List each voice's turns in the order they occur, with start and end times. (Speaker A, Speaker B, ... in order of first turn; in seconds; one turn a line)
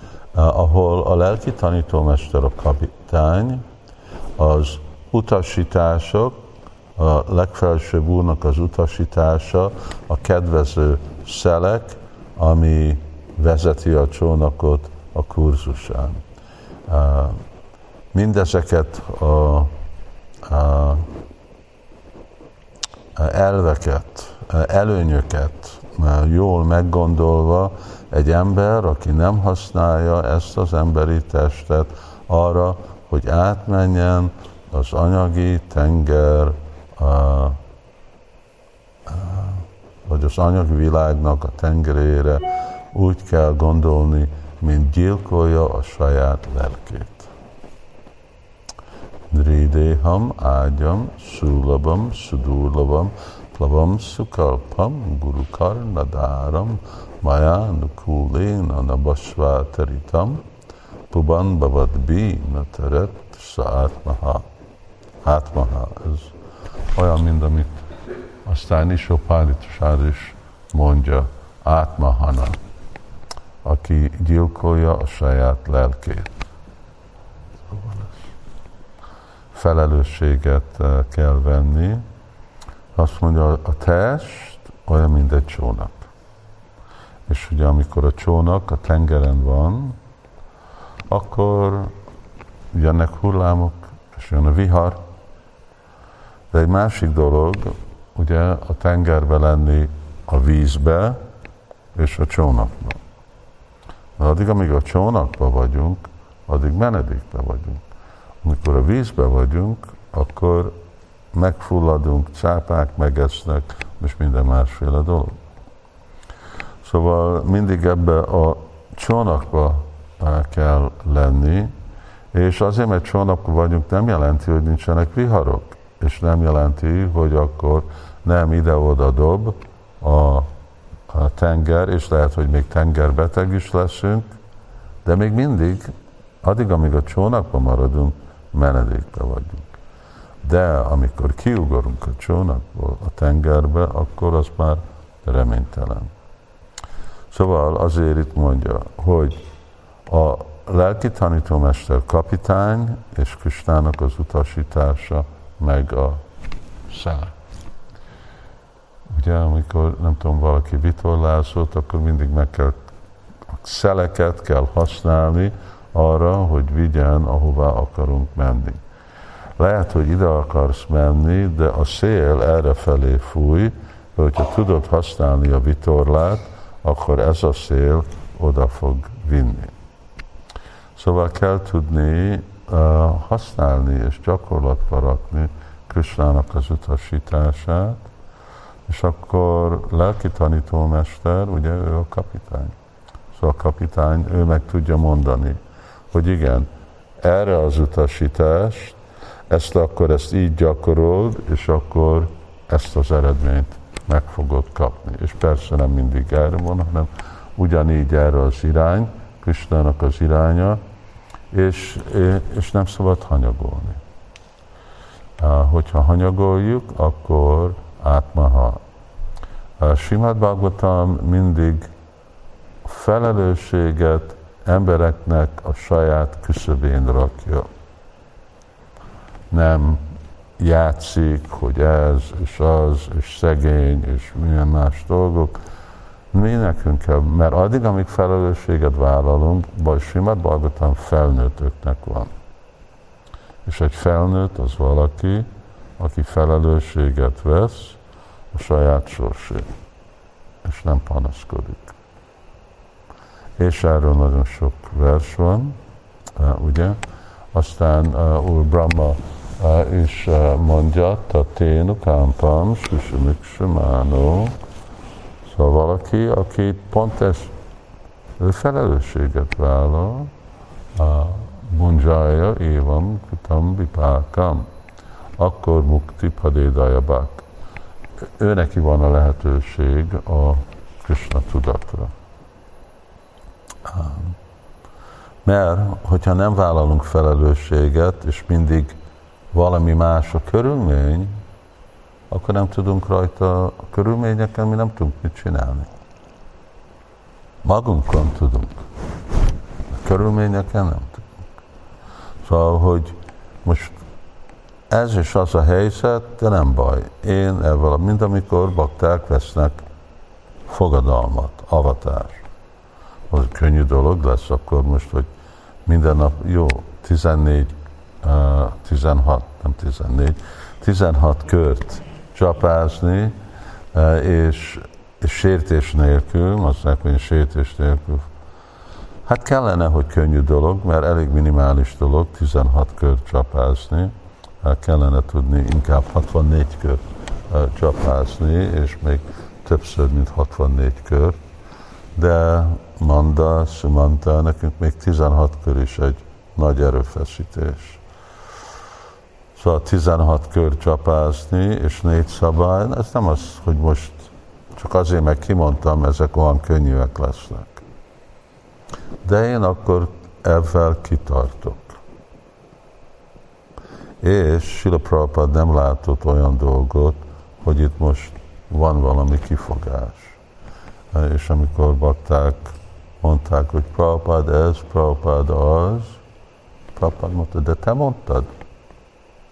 Speaker A: 0.3-3.6
Speaker A: 4.4-6.4
Speaker A: 7.0-16.2
Speaker A: 16.9-17.4
Speaker A: 18.1-19.7
Speaker A: 20.4-21.1
Speaker A: 23.1-37.6
Speaker A: 39.1-47.3
Speaker A: 49.3-60.4
Speaker A: 61.1-64.5
Speaker A: 65.2-66.3
Speaker A: 66.9-67.8
Speaker A: 68.4-72.6
Speaker A: 73.6-76.3
Speaker A: 77.7-78.3
Speaker A: 79.5-82.0
Speaker A: 82.9-86.1
Speaker A: 87.3-90.0
Speaker A: 91.1-91.9
Speaker A: 92.7-95.0
Speaker A: 96.5-101.2
Speaker A: 101.9-103.0
Speaker A: 104.2-107.8
Speaker A: 108.4-110.8
Speaker A: 111.3-115.4
Speaker A: 116.8-121.7
Speaker A: 122.3-130.5
Speaker A: 131.1-134.3
Speaker A: 135.0-135.9
Speaker A: 136.4-139.7
Speaker A: 140.4-146.1
Speaker A: 147.3-149.4
Speaker A: 150.1-156.2
Speaker A: 156.9-157.3
Speaker A: 159.1-162.8
Speaker A: 163.5-168.8
Speaker A: 169.6-179.7
Speaker A: 180.9-188.1
Speaker A: 188.9-192.7
Speaker A: 193.3-195.6
Speaker A: 196.1-196.7
Speaker A: 197.2-199.0
Speaker A: 199.5-210.8
Speaker A: 211.5-214.0
Speaker A: 215.4-218.8
Speaker A: 219.8-221.9
Speaker A: 222.8-227.7
Speaker A: 229.5-230.1
Speaker A: 230.6-235.6
Speaker A: 236.3-242.3
Speaker A: 243.6-248.0
Speaker A: 248.5-249.7
Speaker A: 250.6-251.9
Speaker A: 253.6-255.8
Speaker A: 256.4-257.0
Speaker A: 257.5-264.5
Speaker A: 265.4-267.5
Speaker A: 268.4-270.3
Speaker A: 270.9-274.7
Speaker A: 275.4-277.4
Speaker A: 278.4-282.1
Speaker A: 283.9-284.4
Speaker A: 285.4-288.9
Speaker A: 289.5-291.3
Speaker A: 292.3-295.9
Speaker A: 297.6-298.8
Speaker A: 299.9-301.3
Speaker A: 302.4-304.0
Speaker A: 304.9-309.8
Speaker A: 310.7-312.4
Speaker A: 313.3-315.3
Speaker A: 315.9-323.4
Speaker A: 323.9-328.3
Speaker A: 329.2-341.4
Speaker A: 342.1-348.0
Speaker A: 349.6-357.8
Speaker A: 359.2-362.0
Speaker A: 364.2-370.4
Speaker A: 371.1-376.2
Speaker A: 376.9-378.5